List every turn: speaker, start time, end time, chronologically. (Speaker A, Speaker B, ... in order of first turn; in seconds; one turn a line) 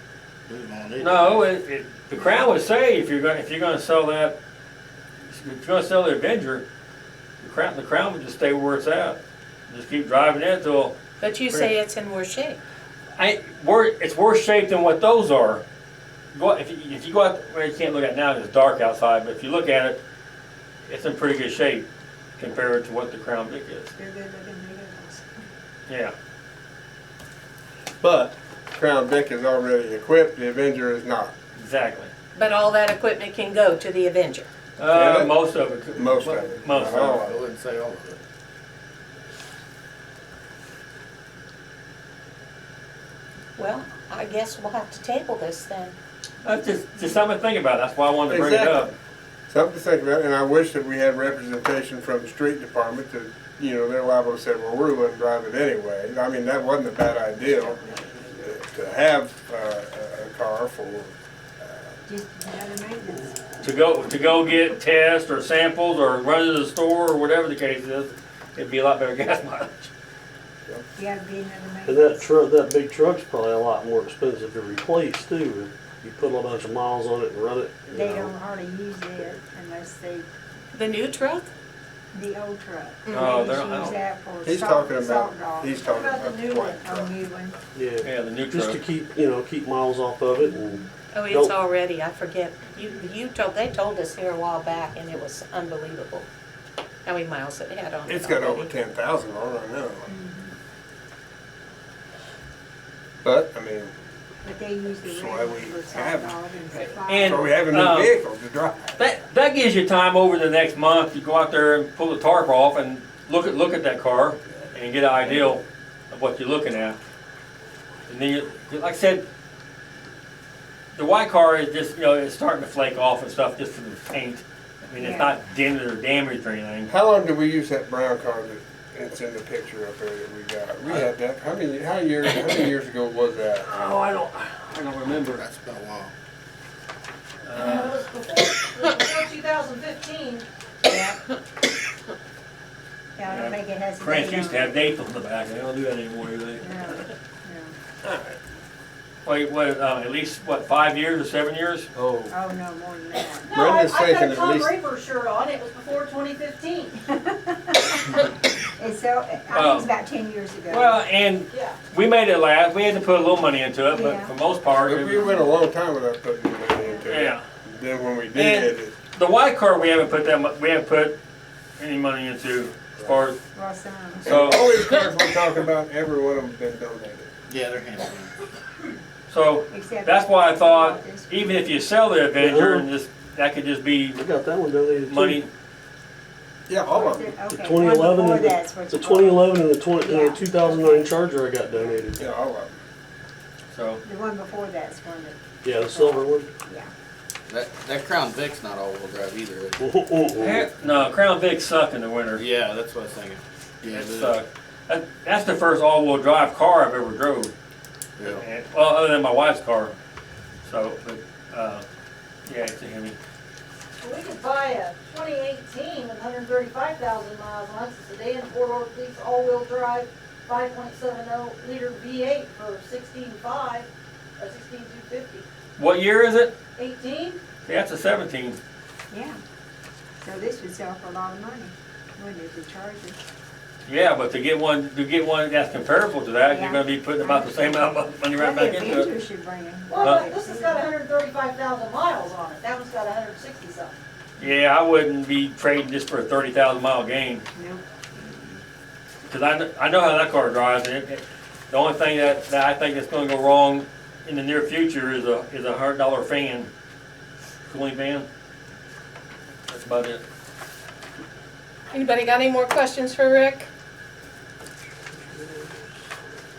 Speaker A: 0.5-1.5
Speaker B: 1.0-4.3
Speaker B: 5.3-6.6
Speaker B: 7.4-10.9
Speaker C: 11.2-12.6
Speaker B: 13.2-15.6
Speaker B: 16.3-20.0
Speaker B: 20.9-21.9
Speaker B: 22.4-23.9
Speaker D: 23.9-25.5
Speaker B: 25.9-26.1
Speaker E: 28.0-31.3
Speaker B: 31.6-32.1
Speaker C: 32.3-34.5
Speaker B: 34.8-37.2
Speaker E: 34.9-35.3
Speaker E: 35.9-37.4
Speaker A: 36.7-38.2
Speaker C: 43.6-45.9
Speaker B: 46.4-48.9
Speaker E: 48.3-48.9
Speaker E: 49.5-62.0
Speaker D: 57.6-58.3
Speaker D: 62.0-63.4
Speaker B: 63.6-69.9
Speaker D: 70.9-72.3
Speaker F: 71.8-78.3
Speaker D: 77.9-80.3
Speaker C: 80.7-81.5
Speaker D: 82.1-85.9
Speaker C: 83.0-83.5
Speaker B: 83.1-84.0
Speaker E: 84.4-87.1
Speaker G: 85.9-86.9
Speaker D: 86.8-87.6
Speaker F: 87.7-91.5
Speaker B: 88.0-88.8
Speaker C: 91.1-96.3
Speaker C: 97.0-98.7
Speaker E: 98.0-100.0
Speaker D: 100.1-100.5
Speaker E: 103.2-103.9
Speaker D: 104.4-107.6
Speaker E: 105.0-109.0
Speaker B: 107.1-108.1
Speaker B: 109.0-117.0
Speaker B: 118.1-119.2
Speaker B: 120.9-126.9
Speaker D: 125.0-125.4
Speaker E: 126.9-133.7
Speaker B: 133.7-135.4
Speaker A: 135.3-136.1
Speaker B: 137.4-138.0
Speaker G: 137.5-140.4
Speaker D: 140.8-141.2
Speaker D: 143.2-144.8
Speaker B: 143.3-147.0
Speaker D: 146.6-147.7
Speaker B: 149.2-151.9
Speaker E: 151.9-152.3
Speaker D: 152.3-153.5
Speaker G: 153.4-156.9
Speaker E: 153.5-154.7
Speaker D: 157.0-158.1
Speaker D: 158.8-161.0
Speaker B: 159.5-159.9
Speaker B: 160.7-165.2
Speaker G: 161.5-161.8
Speaker D: 163.9-164.3
Speaker E: 164.8-168.9
Speaker D: 165.2-165.5
Speaker D: 166.8-167.1
Speaker B: 167.1-167.4
Speaker B: 168.3-171.2
Speaker B: 171.8-173.4
Speaker E: 172.9-173.2
Speaker D: 173.5-174.3
Speaker B: 174.2-174.7
Speaker E: 174.2-177.3
Speaker A: 177.5-178.4
Speaker B: 179.3-184.2
Speaker D: 179.7-181.6
Speaker F: 182.4-182.9
Speaker F: 184.1-185.4
Speaker B: 185.1-185.5
Speaker E: 186.7-187.4
Speaker D: 186.8-192.0
Speaker F: 187.5-192.2
Speaker E: 192.1-192.8
Speaker B: 193.7-194.0
Speaker D: 194.0-196.9
Speaker F: 195.6-196.5
Speaker A: 197.5-199.8
Speaker F: 199.8-200.7
Speaker B: 200.4-202.4
Speaker A: 202.3-204.3
Speaker B: 203.8-207.5
Speaker A: 208.2-208.4
Speaker B: 208.2-209.9
Speaker B: 210.6-211.8
Speaker B: 212.4-213.2
Speaker G: 214.0-225.4
Speaker B: 225.8-226.5
Speaker G: 226.7-227.4
Speaker B: 227.7-228.6
Speaker D: 229.1-229.4
Speaker D: 230.2-233.2
Speaker B: 233.8-239.1
Speaker D: 236.4-240.9
Speaker G: 239.9-244.0
Speaker B: 240.0-240.3
Speaker B: 244.4-247.4
Speaker D: 247.5-248.6
Speaker B: 249.3-256.7
Speaker B: 257.7-258.3
Speaker B: 259.7-260.2
Speaker C: 261.9-263.7
Speaker F: 265.3-265.7